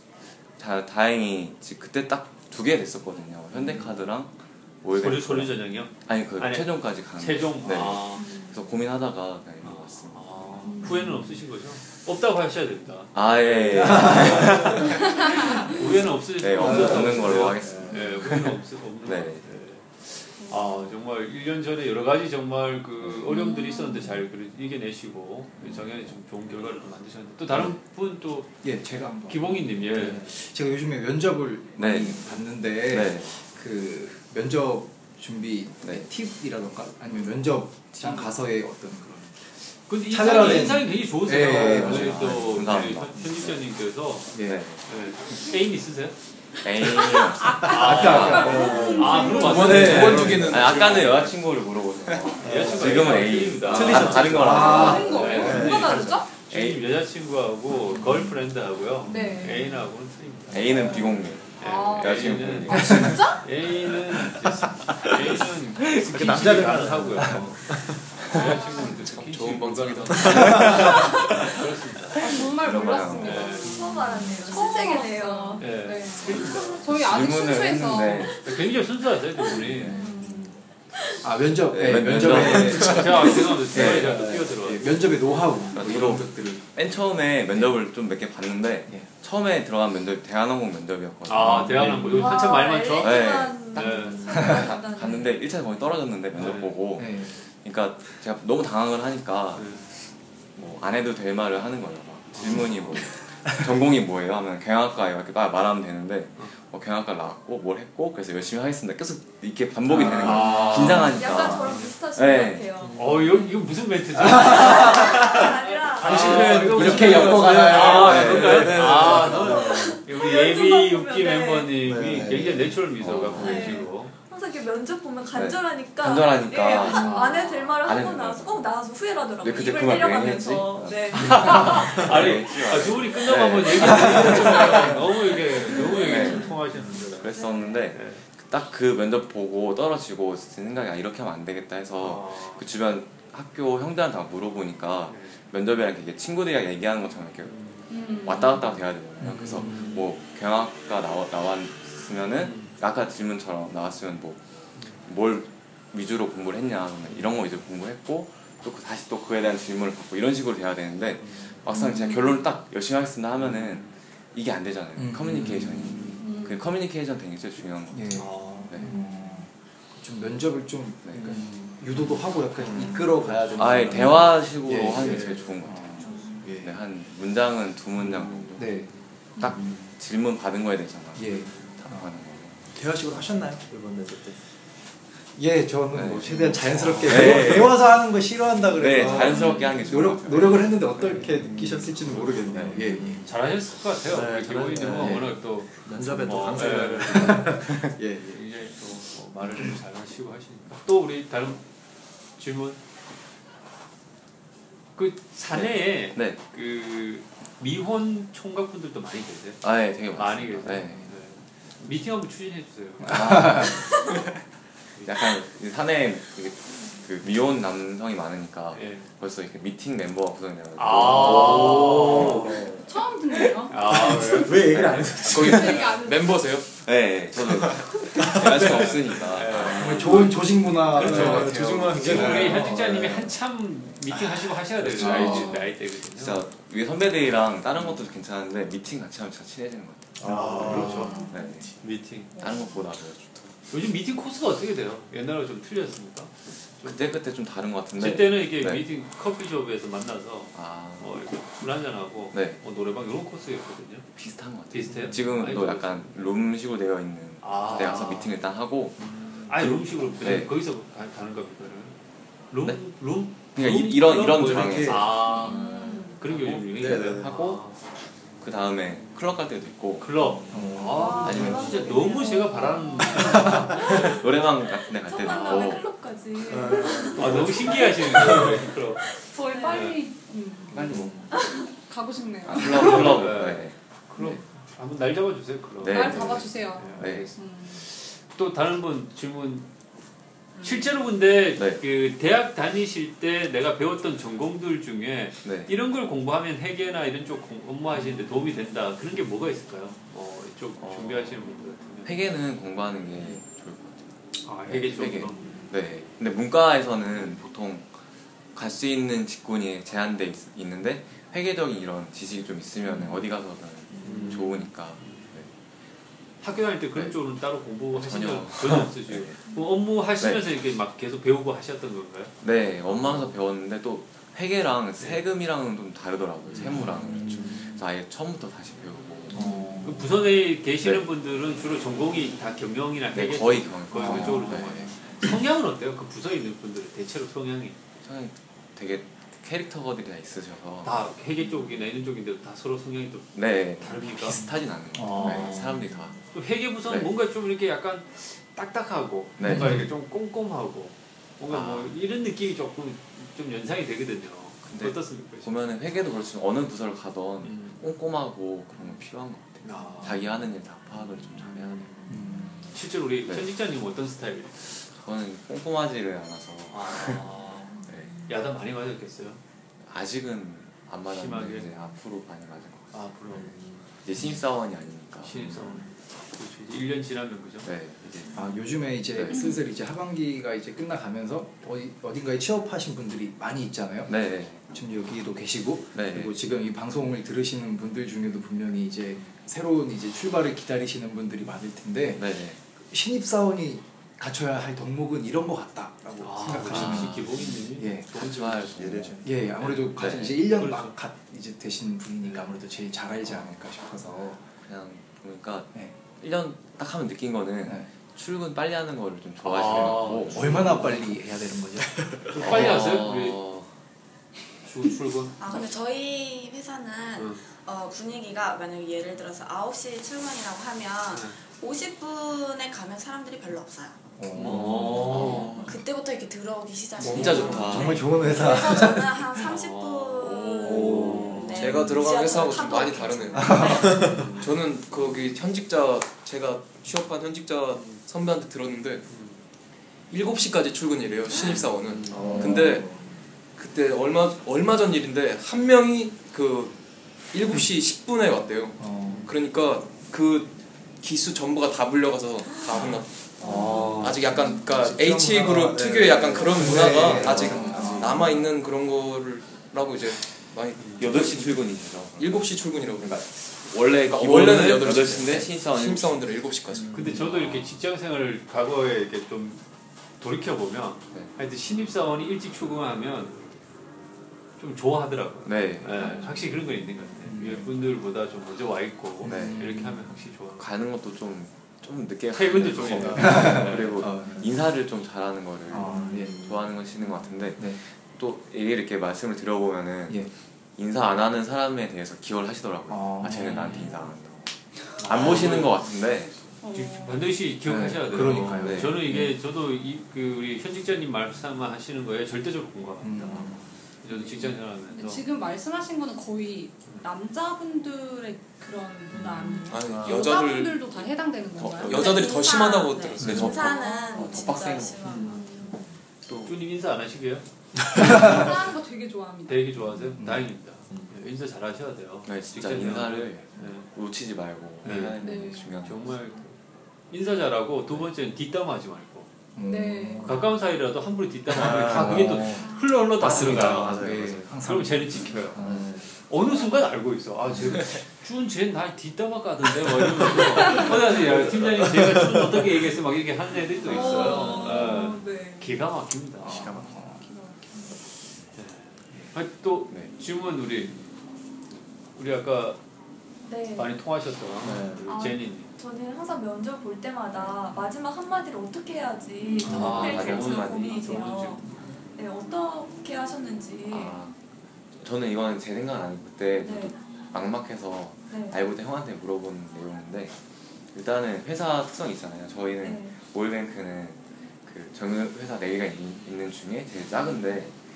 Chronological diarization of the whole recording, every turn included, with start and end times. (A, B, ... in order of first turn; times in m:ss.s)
0:00.6-0:10.6 A
0:05.0-0:08.3 B
0:08.2-0:08.6 C
0:09.6-0:28.5 B
0:10.6-0:11.0 C
0:13.1-0:15.5 A
0:15.0-0:15.7 C
0:16.4-0:19.4 A
0:16.6-0:18.0 D
0:23.2-0:24.2 C
0:25.6-0:26.1 A
0:27.5-0:27.8 A
0:28.6-0:39.3 E
0:29.3-0:30.3 B
0:31.8-0:32.2 A
0:32.8-0:33.3 A
0:38.0-0:38.3 A
0:39.9-0:44.3 B
0:40.1-0:42.4 E
0:40.4-0:40.7 A
0:41.4-0:43.6 A
0:44.3-0:44.6 E
0:44.3-0:44.8 A
0:44.9-0:46.2 B
0:46.6-0:48.7 A
0:47.5-0:50.7 E
0:47.5-0:51.2 B
0:48.1-0:49.6 C
0:48.3-0:49.3 D
0:49.3-0:51.3 F
0:49.6-0:55.5 A
0:52.4-0:56.2 D
0:52.4-1:12.2 B
0:53.6-0:55.5 E
0:54.5-0:56.3 C
0:56.5-0:56.8 A
0:57.9-0:58.3 D
0:59.1-0:59.8 C
1:00.5-1:03.4 A
1:01.6-1:03.4 C
1:06.0-1:08.1 D
1:06.1-1:06.6 A
1:08.2-1:08.5 A
1:08.3-1:09.0 C
1:08.9-1:11.0 F
1:10.2-1:11.5 D
1:12.2-1:13.9 C
1:12.3-1:13.6 A
1:13.2-1:13.8 B
1:13.6-1:15.8 G
1:13.8-1:14.3 D
1:14.4-1:18.4 C
1:15.6-1:16.8 B
1:16.8-1:18.4 A
1:18.4-1:20.0 B
1:19.6-1:20.0 A
1:19.8-1:20.5 C
1:20.0-1:20.5 D
1:21.0-1:21.2 G
1:21.2-1:26.8 E
1:21.7-1:24.3 A
1:22.6-1:25.0 B
1:25.7-1:32.2 A
1:27.5-1:27.8 E
1:31.3-1:34.3 B
1:31.4-1:32.2 E
1:32.0-1:35.4 G
1:32.9-1:39.8 A
1:36.4-1:36.8 B
1:37.0-1:37.4 E
1:39.6-1:39.8 B
1:40.6-1:52.7 A
1:42.3-1:43.0 B
1:50.0-1:50.3 D
1:50.2-1:51.9 B
1:50.2-1:53.1 G
1:52.8-1:53.4 D
1:52.9-2:04.1 B
1:54.2-1:55.1 E
1:54.3-1:57.4 G
1:56.0-2:00.1 D
1:56.0-1:58.6 E
1:57.8-1:59.0 A
1:59.4-2:01.8 G
2:01.8-2:02.9 D
2:03.0-2:03.8 A
2:03.1-2:12.0 G
2:05.3-2:08.7 A
2:06.9-2:07.4 B
2:09.4-2:16.6 A
2:11.1-2:18.2 B
2:15.7-2:16.6 G
2:17.2-2:34.4 A
2:17.3-2:17.9 G
2:22.0-2:22.7 B
2:25.1-2:25.4 B
2:27.5-2:27.8 B
2:27.9-2:28.8 C
2:29.2-2:29.9 E
2:29.6-2:30.0 B
2:32.4-2:32.7 B
2:35.0-2:48.9 A
2:41.7-2:42.3 C
2:45.0-2:46.0 E
2:46.2-2:46.6 C
2:47.9-2:56.7 E
2:48.2-2:48.7 B
2:51.0-2:51.4 A
2:52.6-2:54.4 D
2:53.6-2:56.0 A
2:56.4-2:56.7 D
2:56.6-2:58.7 A
2:58.6-2:58.9 E
2:59.4-3:02.7 A
3:01.2-3:02.1 E
3:02.7-3:04.4 D
3:05.4-3:13.2 E
3:05.9-3:08.0 A
3:06.8-3:07.2 B
3:08.8-3:11.3 A
3:09.3-3:09.8 C
3:11.3-3:13.3 D
3:12.5-3:12.9 A
3:13.2-3:17.7 B
3:14.1-3:17.8 D
3:15.0-3:15.3 E
3:17.0-3:18.4 E
3:18.3-3:21.6 B
3:22.4-3:22.8 B
3:25.0-3:33.7 B
3:25.5-3:26.4 A
3:29.6-3:31.1 A
3:33.1-3:34.3 A
3:33.3-3:33.7 E
3:35.0-3:42.5 A
3:38.7-3:39.1 B
3:40.8-3:42.6 B
3:41.2-3:42.9 D
3:42.9-3:44.4 C
3:43.7-3:44.6 B
3:43.9-3:45.7 D
3:44.5-3:46.0 A
3:45.3-3:46.8 F
3:45.6-3:46.4 C
3:46.8-3:50.1 A
3:48.4-3:56.4 B
3:49.8-3:52.7 E
3:50.9-3:53.3 D
3:51.2-3:51.6 F
3:54.1-3:55.3 D
3:55.0-3:55.5 A
3:55.2-3:55.7 C
3:56.0-4:01.7 A
4:00.2-4:01.3 D
4:00.2-4:01.2 B
4:01.0-4:01.4 C
4:01.8-4:02.3 B
4:02.4-4:03.6 A
4:03.7-4:07.1 B
4:06.8-4:08.8 A
4:08.0-4:14.1 B
4:10.6-4:11.2 A
4:12.3-4:12.6 A
4:14.2-4:19.1 A
4:14.7-4:16.3 B
4:17.4-4:18.3 B
4:19.0-4:19.5 D
4:19.5-4:22.0 B
4:19.6-4:20.5 A
4:22.5-4:27.8 B
4:23.4-4:25.6 A
4:24.3-4:25.1 D
4:25.1-4:26.2 C
4:26.3-4:27.8 A
4:26.6-4:27.4 D
4:28.4-4:30.1 A
4:30.0-4:34.2 B
4:30.2-4:31.2 D
4:30.5-4:31.6 E
4:30.9-4:38.2 G
4:31.2-4:31.8 A
4:32.2-4:33.5 C
4:33.8-4:35.9 A
4:36.5-4:38.7 D
4:37.1-4:39.0 B
4:39.1-4:40.1 G
4:39.5-4:41.0 C
4:39.7-4:40.0 B
4:40.7-4:41.1 A
4:40.8-4:41.1 E
4:40.9-4:41.3 D
4:41.3-4:41.7 G
4:41.7-4:43.2 C
4:42.4-4:44.4 A
4:42.6-4:49.7 B
4:45.8-4:47.3 A
4:45.9-4:47.8 C
4:50.6-5:02.2 B
4:51.6-4:51.8 A
4:55.4-4:55.7 A
5:00.8-5:01.4 A
5:02.0-5:04.0 A
5:04.4-5:05.5 B
5:04.7-5:07.9 A
5:08.5-5:15.5 A
5:13.9-5:14.5 D
5:14.0-5:15.3 B
5:16.4-5:22.3 B
5:17.9-5:19.4 A
5:20.2-5:20.5 A
5:22.4-5:29.4 A
5:22.9-5:23.2 B
5:26.5-5:27.0 B
5:27.0-5:27.8 D
5:29.3-5:30.0 E
5:29.8-5:37.8 B
5:33.1-5:34.9 A
5:34.0-5:34.5 E
5:38.0-5:40.9 A
5:40.8-5:44.4 B
5:43.4-5:46.2 A
5:44.3-5:45.5 E
5:45.0-5:45.8 B
5:46.3-5:55.5 B
5:49.4-5:49.9 A
5:49.5-5:49.9 E
5:51.5-5:51.9 A
5:54.6-6:01.9 A
5:57.4-5:57.8 B
5:59.6-6:00.2 B
6:02.1-6:02.6 E
6:02.7-6:04.6 B
6:05.0-6:07.2 A
6:06.7-6:07.7 B
6:07.9-6:08.2 A
6:08.3-6:09.4 B
6:09.8-6:13.5 A
6:11.1-6:11.7 B
6:12.9-6:13.7 B
6:14.0-6:15.8 A
6:15.2-6:17.7 B
6:17.6-6:18.3 A
6:18.3-6:38.1 E
6:19.1-6:19.4 A
6:19.3-6:19.6 C
6:24.1-6:24.6 A
6:25.9-6:26.4 A
6:32.2-6:32.6 A
6:36.2-6:38.8 B
6:36.6-6:37.2 A
6:38.1-6:39.2 A
6:38.4-6:39.4 D
6:39.2-6:44.4 E
6:39.6-6:40.9 B
6:40.0-6:40.4 A
6:43.3-6:43.6 A
6:44.6-6:50.8 A
6:49.4-6:51.0 B
6:49.8-6:52.2 E
6:52.3-6:53.4 B
6:52.4-6:53.7 A
6:54.6-6:55.4 B
6:55.4-7:04.0 H
6:57.2-6:57.4 B
7:04.2-7:05.4 E
7:04.4-7:05.6 B
7:04.9-7:05.7 A
7:05.0-7:05.7 D
7:05.0-7:14.1 H
7:07.0-7:09.3 E
7:07.0-7:08.1 A
7:07.5-7:08.0 B
7:09.4-7:11.7 B
7:10.3-7:10.8 A
7:10.5-7:19.1 F
7:10.8-7:11.4 D
7:13.4-7:13.8 E
7:13.7-7:14.3 D
7:14.1-7:14.5 B
7:17.7-7:18.0 B
7:19.1-7:19.4 B
7:20.1-7:22.9 F
7:21.9-7:22.2 B
7:22.1-7:23.1 D
7:22.2-7:22.8 E
7:23.6-7:26.8 F
7:27.3-7:33.1 F
7:28.8-7:29.2 E
7:33.4-7:34.2 D
7:33.4-7:34.2 B
7:33.5-7:38.3 E
7:33.9-7:41.6 F
7:35.6-7:38.3 D
7:40.8-7:41.1 B
7:41.0-7:46.4 A
7:42.2-7:47.0 F
7:46.9-7:49.6 B
7:46.9-7:47.2 D
7:47.1-7:47.7 A
7:50.2-7:53.4 B
7:54.6-8:00.7 B
7:55.4-7:56.2 A
7:57.3-7:57.7 E
7:59.2-8:00.1 E
7:59.2-7:59.8 A
8:00.6-8:14.5 A
8:02.3-8:04.0 B
8:03.2-8:04.5 E
8:05.7-8:06.5 E
8:05.8-8:06.6 D
8:12.9-8:13.8 E
8:13.5-8:13.9 B
8:15.0-8:15.8 B
8:15.0-8:16.4 A
8:16.6-8:17.3 C
8:16.7-8:23.4 B
8:17.6-8:19.4 E
8:18.2-8:19.0 A
8:23.0-8:23.6 E
8:24.0-8:25.2 B
8:24.1-8:32.6 C
8:29.1-8:30.2 D
8:29.7-8:31.0 F
8:31.6-8:32.0 A
8:31.8-8:33.7 F
8:31.9-8:35.7 H
8:33.2-8:35.1 A
8:33.6-8:34.7 C
8:35.0-8:35.5 D
8:35.1-8:35.4 B
8:35.2-8:35.8 C
8:36.4-8:37.4 B
8:38.0-8:39.8 C
8:39.5-8:43.9 B
8:40.2-8:40.5 E
8:40.9-8:41.2 D
8:42.3-8:46.2 A
8:44.8-8:45.2 B
8:45.2-8:45.9 C
8:45.8-8:46.6 B
8:47.1-8:49.3 B
8:49.6-8:50.3 E
8:49.6-8:50.3 C
8:50.2-8:50.4 D
8:50.2-8:54.0 B
8:51.5-8:54.7 D
8:51.8-8:55.9 E
8:54.6-8:55.6 B
8:55.5-8:56.1 D
8:56.2-9:06.7 B
9:02.0-9:02.4 D
9:03.9-9:05.3 C
9:03.9-9:05.7 G
9:04.0-9:04.5 D
9:06.4-9:07.0 D
9:06.4-9:07.2 E
9:07.0-9:07.9 C
9:08.6-9:11.0 B
9:12.2-9:12.8 B
9:13.4-9:14.0 G
9:13.8-9:15.7 B
9:14.6-9:15.2 D
9:15.1-9:24.3 G
9:17.4-9:17.6 A
9:19.6-9:21.7 B
9:19.6-9:21.5 A
9:23.9-9:24.4 A
9:25.0-9:30.4 A
9:26.6-9:27.0 G
9:28.3-9:28.6 G
9:30.9-9:37.8 A
9:32.8-9:33.2 G